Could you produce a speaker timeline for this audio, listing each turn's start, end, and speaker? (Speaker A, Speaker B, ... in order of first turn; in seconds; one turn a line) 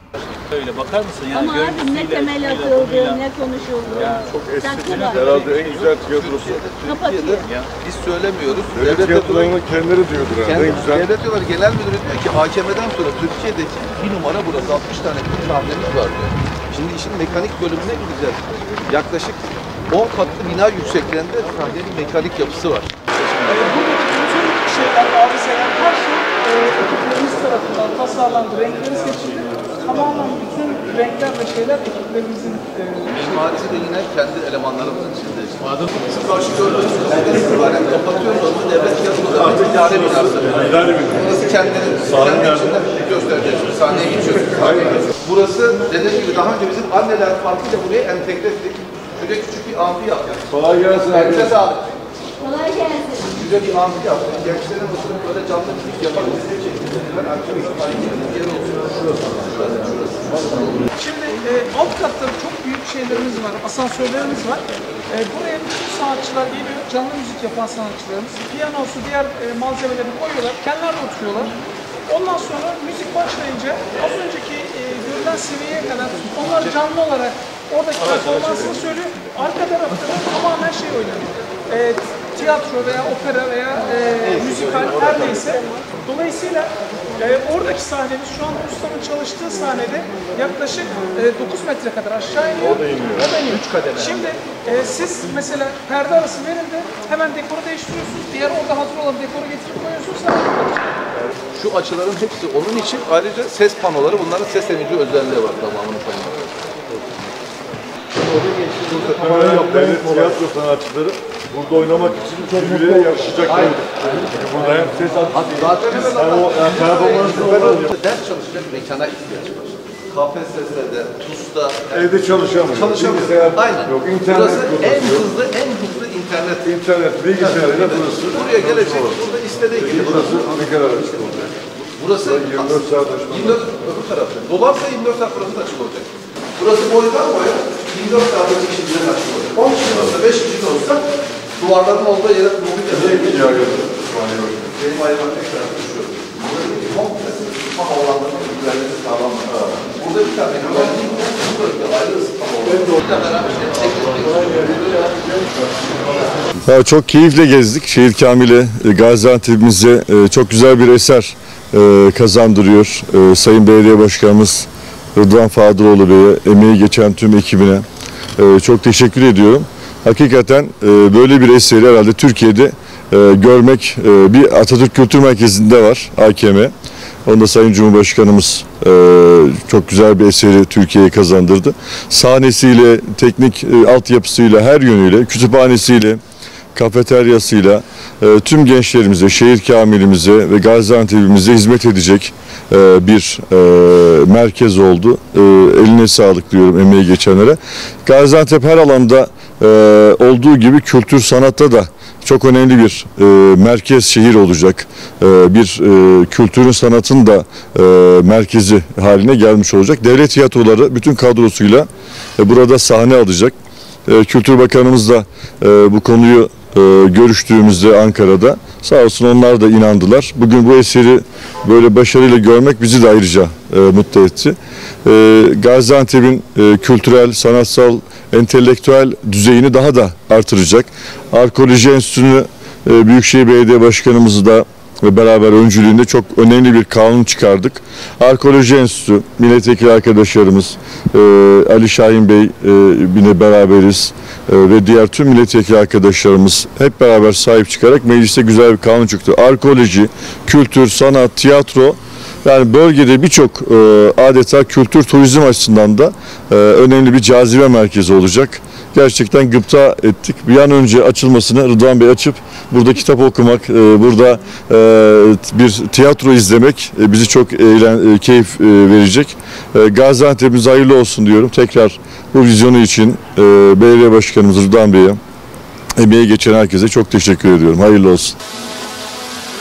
Speaker A: 0.5-2.2
Speaker B: 1.3-5.2
Speaker A: 4.0-4.4
Speaker C: 4.0-6.6
Speaker D: 5.0-9.6
Speaker B: 6.8-7.5
Speaker C: 8.7-11.1
Speaker D: 10.4-23.7
Speaker E: 23.5-33.2
Speaker D: 33.1-51.9
Speaker C: 39.7-41.3
Speaker C: 42.2-42.7
Speaker C: 44.7-45.0
Speaker C: 50.5-51.5
Speaker D: 52.4-60.9
Speaker E: 60.9-71.5
Speaker E: 72.1-101.0
Speaker D: 84.5-85.2
Speaker C: 92.6-93.3
Speaker D: 92.8-94.4
Speaker D: 101.5-106.5
Speaker D: 108.2-110.3
Speaker C: 108.9-117.9
Speaker D: 113.4-114.2
Speaker D: 115.3-126.8
Speaker C: 121.9-125.3
Speaker C: 126.7-129.2
Speaker D: 127.3-130.7
Speaker C: 129.8-131.5
Speaker D: 131.9-141.1
Speaker C: 132.2-133.6
Speaker D: 141.6-143.9
Speaker C: 142.9-144.7
Speaker D: 144.6-156.2
Speaker C: 156.6-167.8
Speaker C: 168.4-176.7
Speaker C: 177.2-186.2
Speaker C: 186.7-213.6
Speaker C: 214.1-275.2
Speaker C: 276.0-278.4